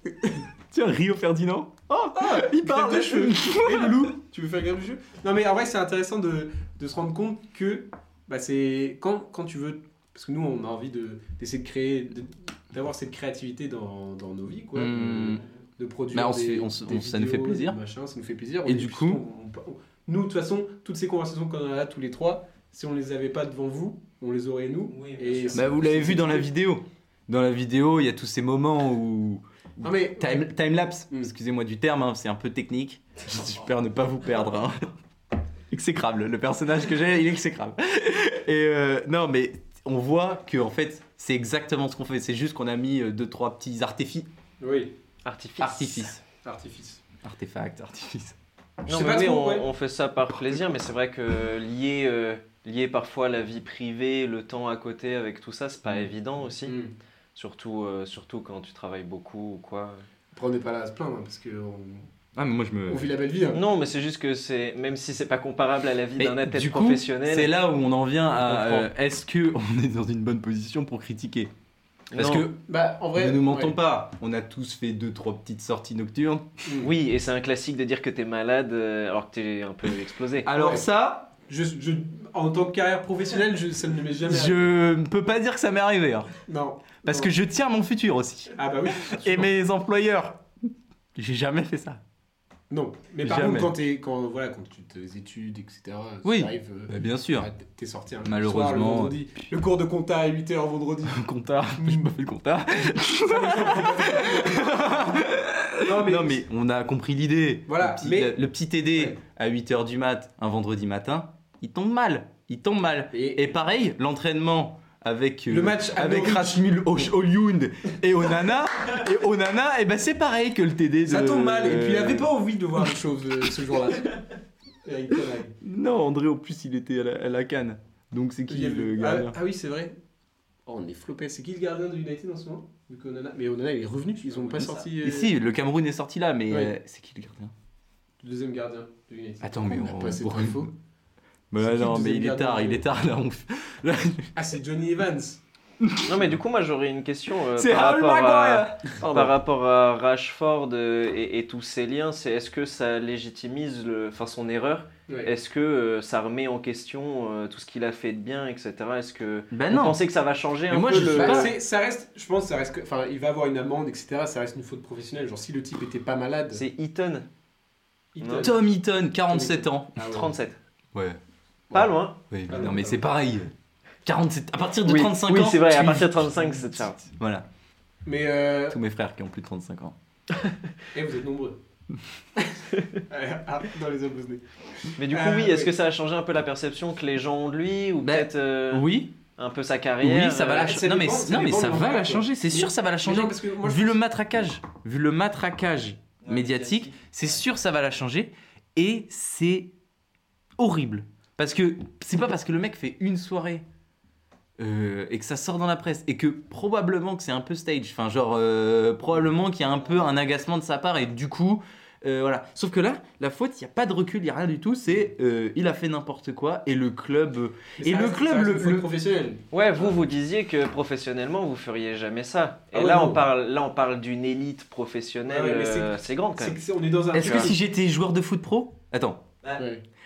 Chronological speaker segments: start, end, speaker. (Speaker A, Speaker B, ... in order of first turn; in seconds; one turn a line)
Speaker A: 0.7-4.1
Speaker B: 2.1-26.5
Speaker A: 14.7-15.4
Speaker A: 16.1-17.8
Speaker A: 18.6-19.2
Speaker C: 24.9-25.7
Speaker A: 25.5-34.9
Speaker B: 29.8-30.5
Speaker A: 35.7-44.3
Speaker B: 44.6-45.0
Speaker C: 45.2-46.1
Speaker A: 45.6-46.2
Speaker B: 46.4-47.0
Speaker A: 47.2-48.4
Speaker B: 48.8-49.7
Speaker C: 48.9-56.8
Speaker B: 56.6-57.0
Speaker C: 57.3-60.0
Speaker B: 60.3-62.1
Speaker A: 62.3-63.1
Speaker B: 62.9-63.6
Speaker C: 63.5-67.5
Speaker A: 66.2-71.5
Speaker B: 68.3-68.9
Speaker C: 72.1-72.5
Speaker A: 72.1-72.6
Speaker B: 72.6-73.8
Speaker A: 73.1-76.5
Speaker B: 76.6-76.9
Speaker C: 76.8-80.5
Speaker A: 80.4-81.3
Speaker B: 80.5-80.9
Speaker B: 81.5-84.6
Speaker A: 84.2-86.4
Speaker B: 86.5-87.3
Speaker A: 87.0-90.4
Speaker B: 88.5-89.5
Speaker A: 91.1-92.0
Speaker B: 92.7-101.2
Speaker A: 93.2-93.7
Speaker A: 96.2-97.5
Speaker A: 98.2-99.2
Speaker A: 101.1-122.3
Speaker B: 101.7-102.1
Speaker B: 103.1-105.2
Speaker B: 105.8-106.5
Speaker B: 107.7-108.4
Speaker B: 113.1-113.4
Speaker B: 115.5-116.7
Speaker B: 121.0-124.2
Speaker B: 124.8-125.6
Speaker A: 125.6-129.3
Speaker B: 128.5-129.9
Speaker B: 130.7-135.3
Speaker C: 134.3-134.8
Speaker A: 134.6-137.5
Speaker B: 138.2-140.7
Speaker A: 139.4-140.7
Speaker A: 141.5-144.3
Speaker B: 141.6-142.8
Speaker B: 144.3-145.4
Speaker A: 145.8-146.3
Speaker C: 146.0-161.6
Speaker A: 147.5-149.3
Speaker A: 159.5-160.0
Speaker A: 160.7-161.5
Speaker B: 161.0-166.6
Speaker C: 166.5-167.3
Speaker B: 168.1-168.6
Speaker C: 168.2-168.5
Speaker A: 168.4-170.0
Speaker B: 169.3-170.3
Speaker C: 170.0-170.6
Speaker A: 170.9-171.2
Speaker B: 171.7-173.0
Speaker C: 171.7-172.2
Speaker A: 171.7-173.5
Speaker A: 174.0-177.4
Speaker C: 174.8-177.0
Speaker B: 178.1-178.8
Speaker A: 178.7-179.9
Speaker B: 180.9-181.6
Speaker B: 182.4-185.7
Speaker C: 185.0-190.6
Speaker A: 188.0-189.2
Speaker A: 190.0-199.7
Speaker B: 190.4-194.0
Speaker C: 196.2-197.4
Speaker A: 200.6-203.6
Speaker A: 204.6-218.9
Speaker B: 217.8-219.9
Speaker C: 219.5-226.6
Speaker B: 222.7-223.2
Speaker B: 225.2-227.6
Speaker A: 227.1-229.2
Speaker C: 227.1-227.5
Speaker B: 229.6-229.8